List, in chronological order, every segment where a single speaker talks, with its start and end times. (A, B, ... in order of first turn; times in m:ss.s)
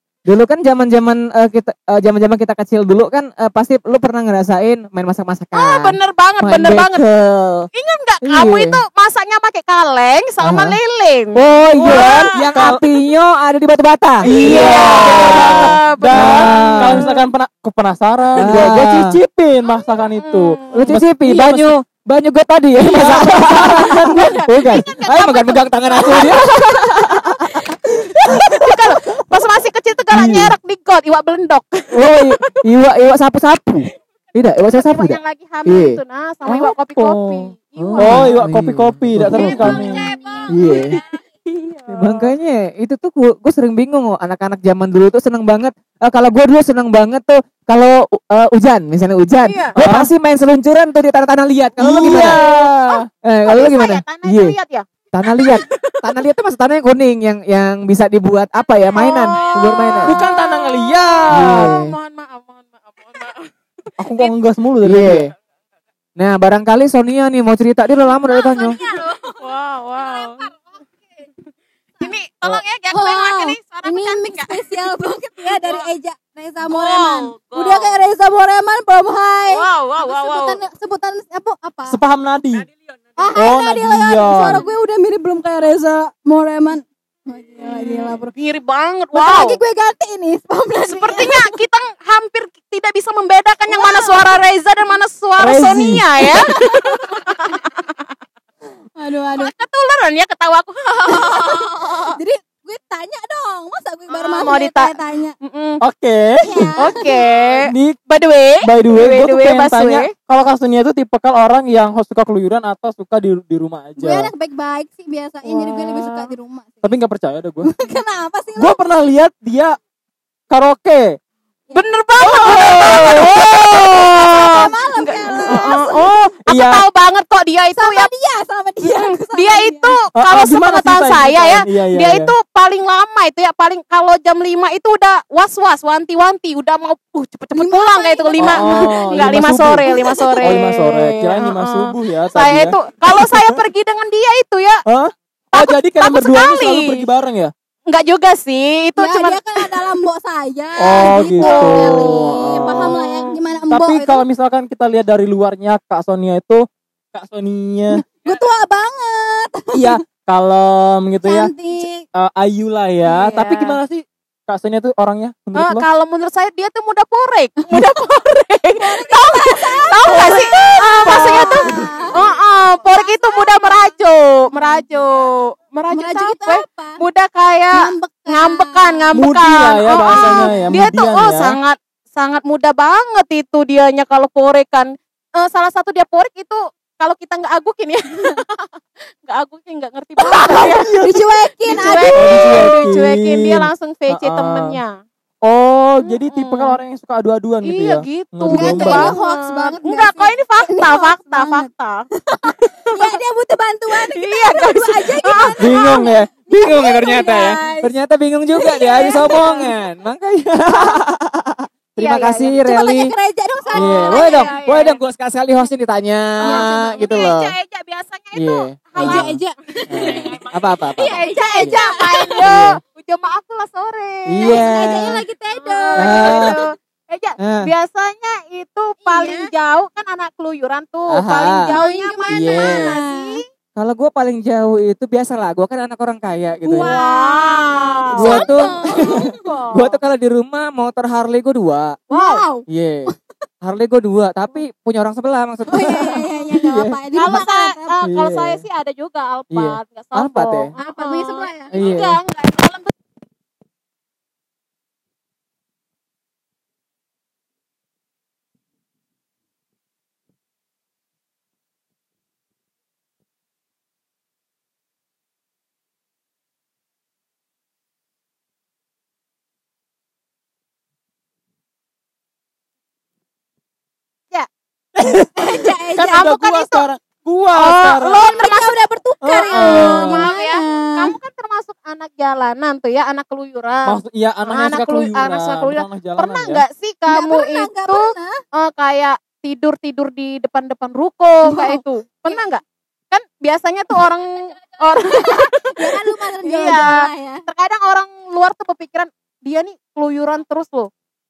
0:00.3-0:07.7 A
0:05.5-0:07.0 B
0:07.7-0:12.8 B
0:08.2-0:08.8 A
0:10.4-0:10.8 A
0:11.4-0:17.1 A
0:11.8-0:12.8 C
0:14.2-0:21.7 C
0:14.2-0:17.3 B
0:18.4-0:19.2 A
0:20.2-0:20.9 B
0:20.7-0:29.2 A
0:22.8-0:24.8 C
0:23.0-0:32.6 B
0:30.1-0:30.5 A
0:31.9-0:36.7 A
0:34.7-0:38.4 B
0:36.9-0:40.1 C
0:37.8-0:39.6 A
0:39.3-0:40.9 D
0:39.3-0:42.3 B
0:40.5-0:41.0 A
0:41.9-0:54.6 A
0:49.4-0:49.7 B
0:49.8-0:50.1 C
0:51.8-0:52.8 C
0:52.0-0:56.1 B
0:55.1-1:00.2 A
0:59.0-1:04.3 B
1:00.0-1:01.8 C
1:01.3-1:02.0 A
1:04.0-1:05.3 C
1:04.8-1:05.3 A
1:06.2-1:08.8 A
1:08.3-1:09.4 D
1:08.9-1:10.5 B
1:10.0-1:10.4 D
1:12.0-1:14.7 B
1:12.9-1:22.0 D
1:16.7-1:18.0 B
1:19.5-1:20.6 B
1:21.9-1:22.7 C
1:23.2-1:28.3 D
1:23.3-1:24.7 C
1:27.7-1:29.6 B
1:29.1-1:31.6 D
1:30.8-1:38.0 B
1:33.7-1:34.4 D
1:35.4-1:36.3 C
1:36.3-1:37.4 D
1:39.0-1:39.5 D
1:39.4-1:42.2 B
1:41.1-1:45.3 D
1:44.1-1:45.8 B
1:45.8-1:46.8 C
1:46.4-1:47.3 D
1:46.8-1:50.1 B
1:47.6-1:48.0 C
1:48.6-1:54.3 C
1:54.0-1:56.9 D
1:55.5-1:56.3 B
1:56.8-1:57.7 C
1:57.6-1:58.8 D
1:58.6-1:59.8 C
2:00.5-2:01.2 C
2:01.7-2:08.1 B
2:02.2-2:04.0 C
2:03.0-2:03.3 D
2:04.0-2:06.0 D
2:06.4-2:06.8 C
2:07.7-2:10.0 D
2:08.8-2:24.8 B
2:10.1-2:12.3 C
2:17.5-2:20.7 D
2:18.4-2:23.6 C
2:24.9-2:27.5 C
2:25.5-2:27.1 B
2:27.9-2:29.8 B
2:29.0-2:34.2 D
2:30.8-2:33.0 C
2:31.4-2:33.4 B
2:33.7-2:38.0 C
2:37.9-2:40.0 D
2:39.7-2:45.8 C
2:41.2-2:42.0 D
2:43.0-2:43.8 B
2:45.5-3:08.7 B
2:47.7-2:48.0 D
2:48.8-2:52.2 D
2:50.1-2:51.6 C
2:52.8-2:54.0 D
2:54.5-2:54.9 D
2:55.9-2:57.0 D
2:57.7-2:59.2 D
2:59.1-3:01.6 C
3:00.1-3:00.7 D
3:09.2-3:10.9 B
3:10.3-3:11.2 C
3:10.3-3:12.7 D
3:11.6-3:15.0 B
3:12.1-3:14.8 C
3:15.4-3:19.2 C
3:16.0-3:16.8 B
3:17.6-3:23.2 B
3:18.5-3:21.7 D
3:22.2-3:27.9 D
3:24.0-3:25.9 B
3:25.6-3:27.6 C
3:27.8-3:33.2 A
3:28.6-3:29.7 D
3:32.0-3:32.6 B
3:32.6-3:34.6 D
3:33.7-3:35.0 B
3:33.7-3:37.6 A
3:36.4-3:37.1 D
3:36.4-3:39.3 B
3:38.3-3:39.4 A
3:39.0-3:42.5 D
3:39.9-3:41.8 A
3:39.9-3:44.6 B
3:42.4-3:42.8 A
3:44.3-3:45.2 A
3:44.4-3:46.7 D
3:45.6-3:53.4 B
3:46.0-3:46.5 A
3:47.4-3:47.7 A
3:49.0-3:49.5 D
3:51.1-3:51.7 A
3:51.7-3:53.4 D
3:52.3-3:53.0 A
3:53.8-3:57.0 A
3:56.6-3:59.5 D
3:56.7-4:00.0 B
3:58.2-4:02.0 A
4:02.1-4:02.4 B
4:02.1-4:03.1 D
4:02.7-4:07.3 A
4:05.7-4:08.0 D
4:07.1-4:12.9 B
4:08.0-4:08.6 A
4:09.5-4:10.7 A
4:10.8-4:11.7 D
4:11.7-4:12.2 A
4:35.0-4:38.5 C
4:35.4-4:36.3 D
4:36.0-4:36.9 B
4:37.5-4:38.8 B
4:38.1-4:41.1 D
4:39.2-4:40.3 C
4:39.5-5:00.9 B
4:43.8-4:46.6 C
4:47.1-4:48.4 D
4:51.4-4:52.4 D
4:55.1-4:57.4 D